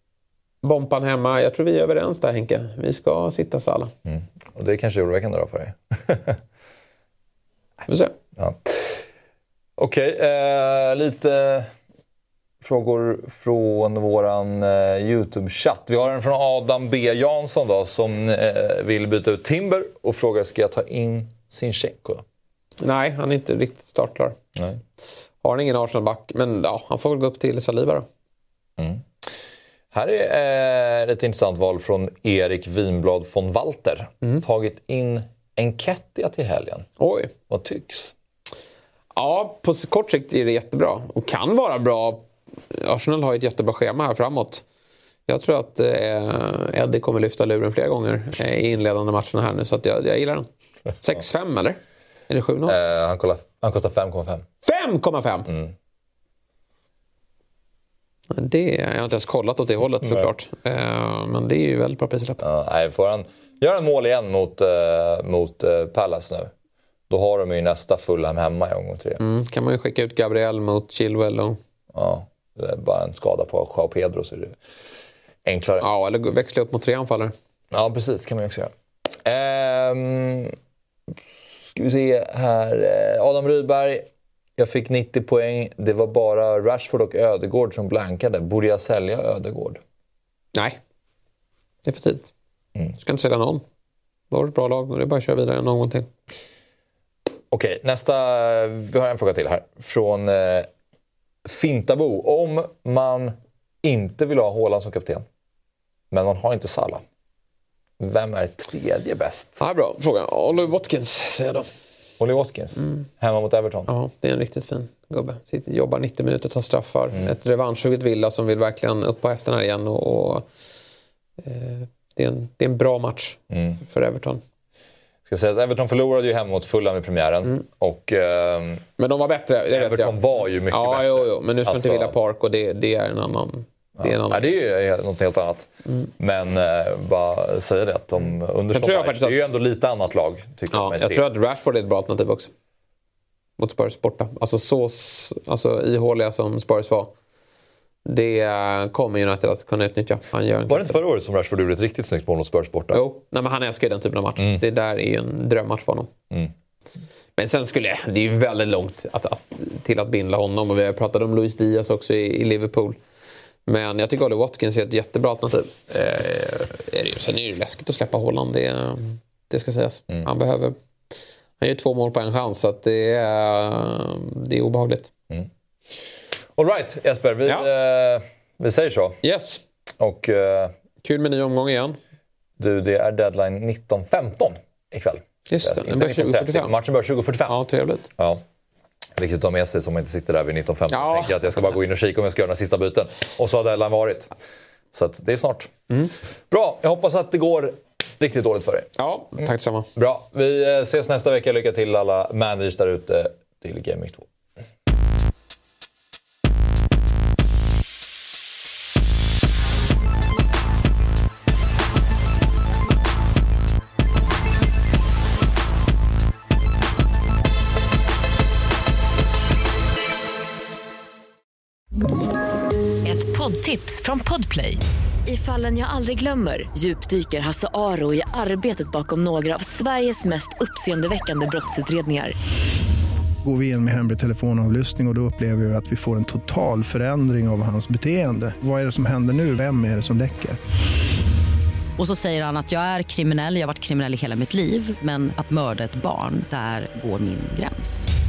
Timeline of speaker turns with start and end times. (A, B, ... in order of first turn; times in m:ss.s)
0:00.6-0:03.9 A
0:04.0-0:06.4 B
0:07.8-0:08.1 A
0:08.4-0:09.1 B
0:09.8-0:11.7 B
0:12.6-0:22.2 B
0:22.8-0:24.4 A
0:25.4-0:28.1 A
0:28.8-0:29.4 B
0:29.9-0:36.9 B
0:37.0-0:37.3 A
0:37.5-0:38.1 B
0:39.2-0:44.6 A
0:45.3-0:50.5 A
0:51.0-0:51.8 A
0:52.3-0:52.8 A
0:52.6-0:54.4 B
0:54.6-0:55.5 A
0:55.5-0:55.7 B
0:58.3-1:02.4 A
1:00.0-1:00.3 B
1:02.4-1:06.5 B
1:07.1-1:09.2 B
1:09.2-1:11.6 A
1:11.9-1:14.6 B
1:15.4-1:15.9 B
1:15.8-1:17.3 A
1:17.7-1:20.6 B
1:21.6-1:29.8 B
1:31.8-1:32.3 A
1:33.0-1:33.6 A
1:34.3-1:36.1 A
1:37.5-1:40.7 B
1:41.4-1:45.2 B
1:46.1-1:47.0 B
1:48.0-1:49.6 B
1:49.6-1:51.7 A
1:52.2-1:53.9 B
1:53.9-2:00.4 A
2:01.4-2:04.4 A
2:03.5-2:03.8 B
2:05.2-2:08.8 B
2:09.0-2:14.5 A
2:09.7-2:12.1 B
2:14.0-2:21.2 B
2:18.7-2:19.4 A
2:20.7-2:22.5 A
2:23.6-2:27.1 A
2:28.0-2:31.0 A
2:30.7-2:33.0 B
2:32.9-2:36.1 A
2:37.4-2:43.0 A
2:43.7-2:50.8 A
2:51.6-2:55.1 A
2:55.3-2:56.0 B
2:56.6-2:59.2 B
2:59.2-2:59.6 A
3:00.0-3:00.7 B
3:01.0-3:02.0 A
3:02.6-3:07.6 B
3:05.5-3:06.7 A
3:07.5-3:08.1 A
3:08.2-3:08.4 B
3:09.2-3:14.3 B
3:10.9-3:11.5 A
3:14.9-3:15.7 B
3:16.5-3:18.9 B
3:19.0-3:19.9 A
3:20.0-3:24.3 B
3:43.0-3:52.3 C
3:53.4-4:00.6 D
4:02.0-4:08.1 E